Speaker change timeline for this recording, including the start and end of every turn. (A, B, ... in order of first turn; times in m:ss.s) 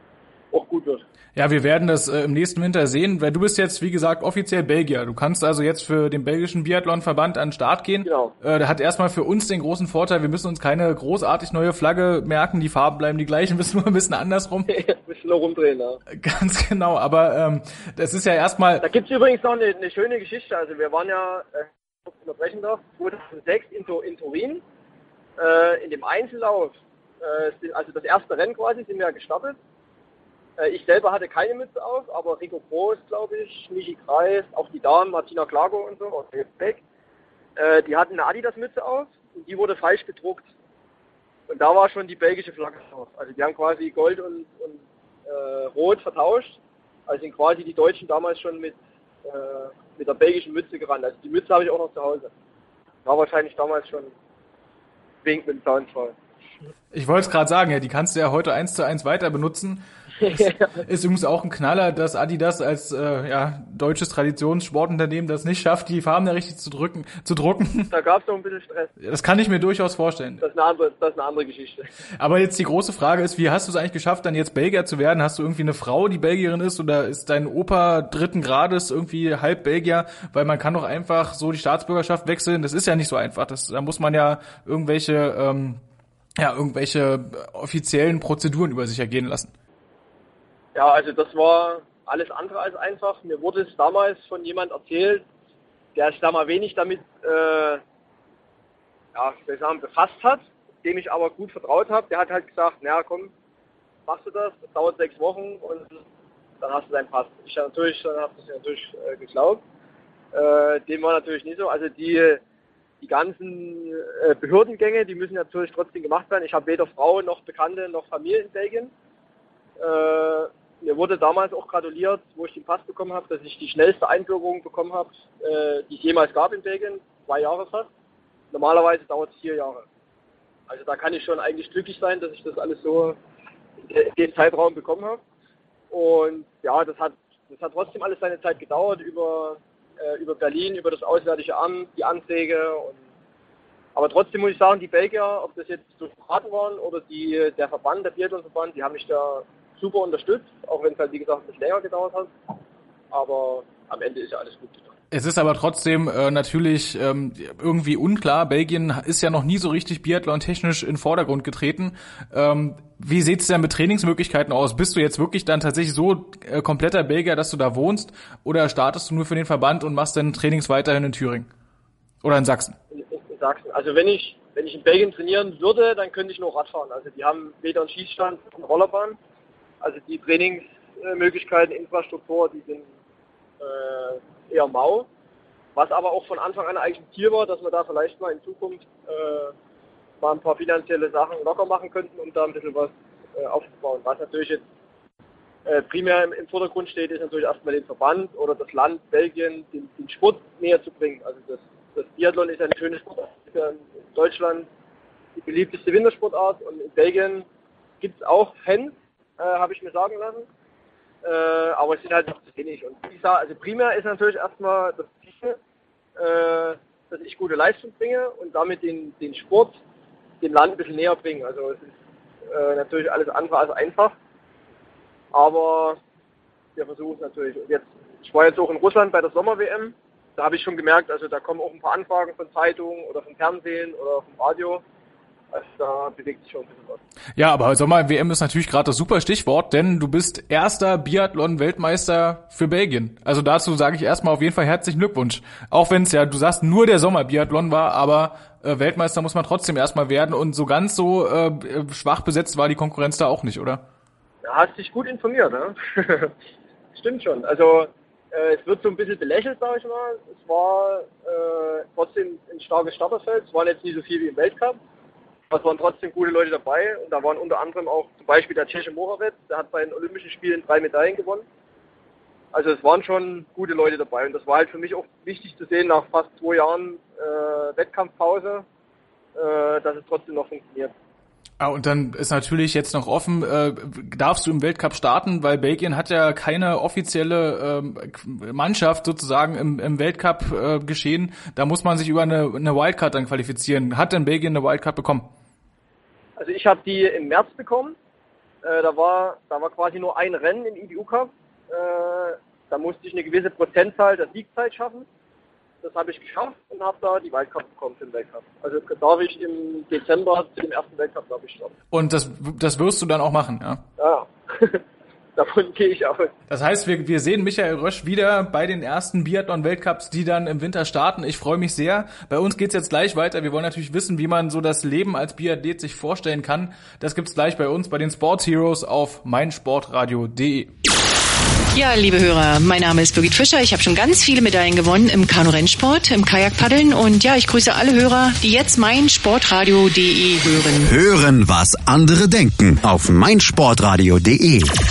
0:00.5-0:01.0 A
0:01.3-0:14.8 B
0:08.0-0:08.3 A
0:14.7-0:16.0 A
0:16.1-0:18.8 B
0:18.8-0:24.6 A
0:25.4-0:29.6 A
0:30.6-0:36.8 A
0:37.6-0:40.5 A
0:41.5-0:52.3 A
0:53.0-0:54.1 A
0:55.2-0:56.1 A
0:56.9-1:07.9 B
1:00.2-1:00.8 A
1:07.9-1:08.9 A
1:09.0-1:10.4 B
1:10.4-1:11.9 A
1:12.2-1:25.8 B
1:26.4-1:29.5 B
1:30.7-1:35.2 A
1:35.9-1:37.8 A
1:39.1-1:43.3 A
1:44.1-1:46.0 A
1:46.6-1:49.6 A
1:50.3-1:52.4 A
1:53.0-1:58.9 A
1:59.8-2:07.9 A
2:08.5-2:09.8 A
2:10.7-2:13.2 A
2:13.8-2:15.2 A
2:15.9-2:23.0 A
2:24.0-2:32.3 A
2:33.1-2:34.9 A
2:35.1-2:51.5 B
2:52.2-2:52.8 B
2:52.9-2:59.2 A
2:59.8-3:02.8 A
3:03.6-3:05.1 A
3:05.8-3:09.5 A
3:10.2-3:14.6 A
3:15.6-3:24.7 A
3:25.4-3:27.5 A
3:28.0-3:30.5 A
3:31.2-3:35.6 A
3:36.2-3:39.8 A
3:40.4-3:41.9 A
3:42.5-3:44.1 A
3:45.3-3:46.0 A
3:46.8-3:54.8 A
3:55.5-3:57.0 A
3:57.4-4:13.8 B
4:14.4-4:16.3 A
4:16.9-4:24.8 A
4:25.5-4:31.4 A
4:32.5-4:38.6 A
4:39.4-4:40.9 A
4:41.6-4:55.3 B
4:56.4-4:58.0 A
4:58.6-5:05.1 A
5:05.8-5:11.7 A
5:11.9-5:13.8 B
5:14.0-5:14.8 A
5:15.4-5:16.3 A
5:16.5-5:30.7 B
5:31.7-5:40.9 C
5:40.8-5:44.7 D